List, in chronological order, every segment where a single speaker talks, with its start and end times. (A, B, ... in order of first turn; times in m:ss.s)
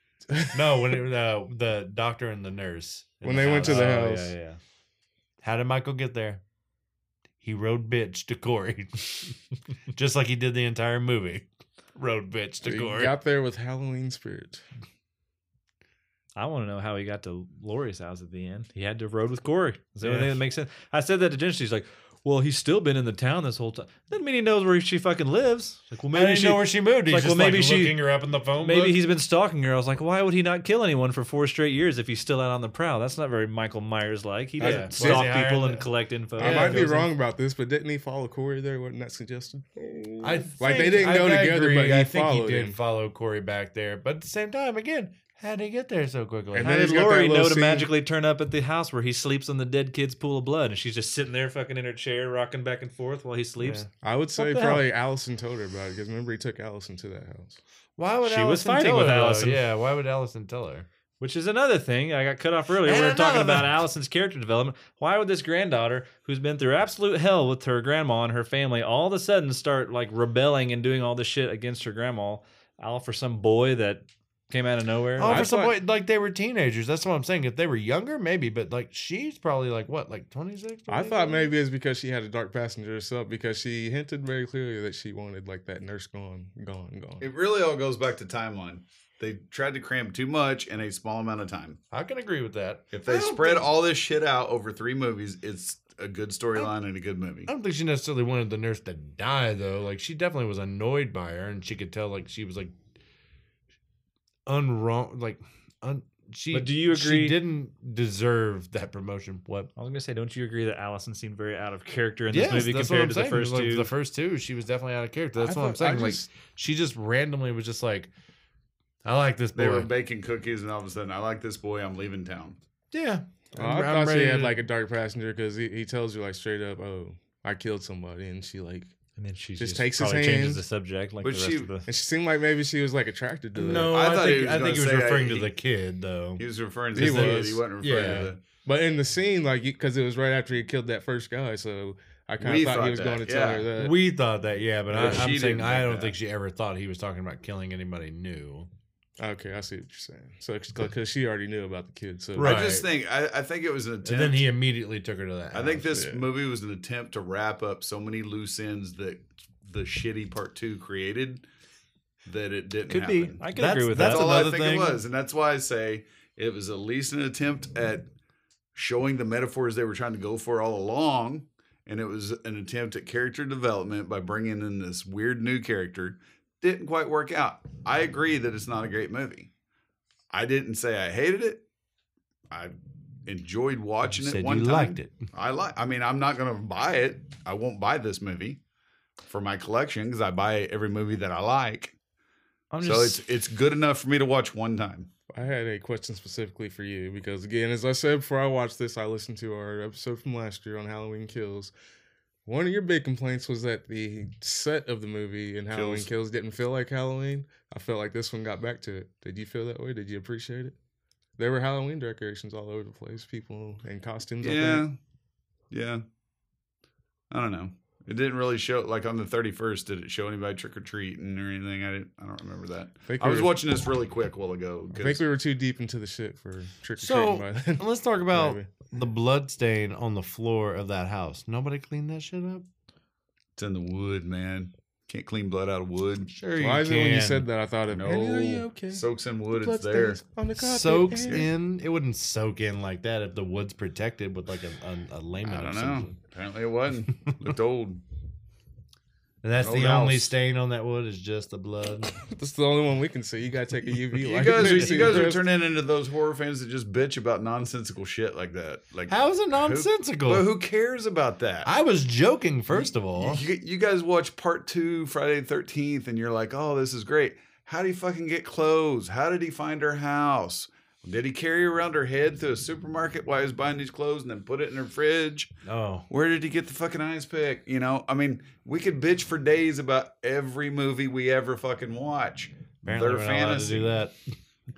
0:00.3-0:00.6 A
0:00.5-0:04.3 B
0:03.2-0:04.3 A
0:03.4-0:04.6 C
0:05.4-0:06.4 B
0:07.4-0:09.4 B
0:09.9-0:13.1 B
0:12.6-0:14.6 A
0:16.4-0:28.0 C
0:20.0-0:20.4 B
0:26.1-0:29.0 B
0:28.6-0:37.1 C
0:34.6-0:35.4 A
0:34.6-0:35.9 B
0:36.4-0:36.9 B
0:36.4-0:42.8 A
0:40.2-0:46.8 B
0:46.5-0:47.9 A
0:46.6-0:54.9 C
0:53.6-0:53.9 B
0:54.0-0:57.6 A
0:58.0-1:00.9 B
0:58.2-0:59.6 C
1:01.2-1:15.5 C
1:02.8-1:03.8 B
1:15.2-1:21.5 B
1:15.2-1:15.8 A
1:20.9-1:27.3 A
1:27.2-1:31.8 D
1:31.9-1:33.7 B
1:32.9-1:37.5 D
1:37.5-1:42.8 B
1:44.5-1:49.7 B
1:46.5-1:47.4 C
1:49.8-1:53.9 C
1:52.3-1:58.1 B
1:55.4-1:56.3 A
1:59.0-1:59.9 B
1:59.6-2:02.6 D
2:02.9-2:04.6 B
2:03.6-2:08.9 A
2:09.2-2:11.9 C
2:09.6-2:10.6 A
2:11.2-2:11.7 D
2:11.9-2:14.0 A
2:13.6-2:16.4 B
2:13.9-2:15.5 D
2:16.4-2:18.4 D
2:17.0-2:18.3 B
2:17.0-2:24.0 A
2:22.4-2:23.7 D
2:23.8-2:28.7 B
2:24.9-2:26.2 D
2:29.2-2:32.7 A
2:32.4-2:32.9 B
2:32.4-2:34.5 D
2:34.0-2:35.9 B
2:35.5-2:41.4 D
2:36.0-2:36.2 A
2:42.2-2:48.1 D
2:42.9-2:44.4 C
2:43.5-2:45.0 B
2:48.7-2:59.5 D
3:00.3-3:01.6 D
3:02.5-3:08.6 D
3:04.0-3:05.2 B
3:09.3-3:12.0 D
3:12.7-3:13.2 C
3:12.8-3:15.1 D
3:15.3-3:21.7 A
3:22.4-3:30.8 A
3:25.7-3:26.1 D
3:31.4-3:34.8 A
3:34.4-3:35.0 D
3:35.7-3:36.0 D
3:37.3-3:45.2 D
3:43.1-3:43.5 A
3:44.9-3:48.7 A
3:47.0-3:52.7 B
3:53.6-3:56.3 D
3:56.3-3:57.5 B
3:56.6-4:01.5 A
3:57.9-4:00.2 D
4:00.6-4:06.2 B
4:05.4-4:08.0 D
4:09.4-4:12.2 B
4:09.6-4:10.3 D
4:12.2-4:15.4 A
4:14.2-4:21.7 D
4:14.5-4:15.2 B
4:19.1-4:20.5 B
4:21.6-4:23.4 B
4:22.8-4:35.5 D
4:35.6-4:36.1 B
4:36.1-4:44.0 D
4:42.8-4:44.2 B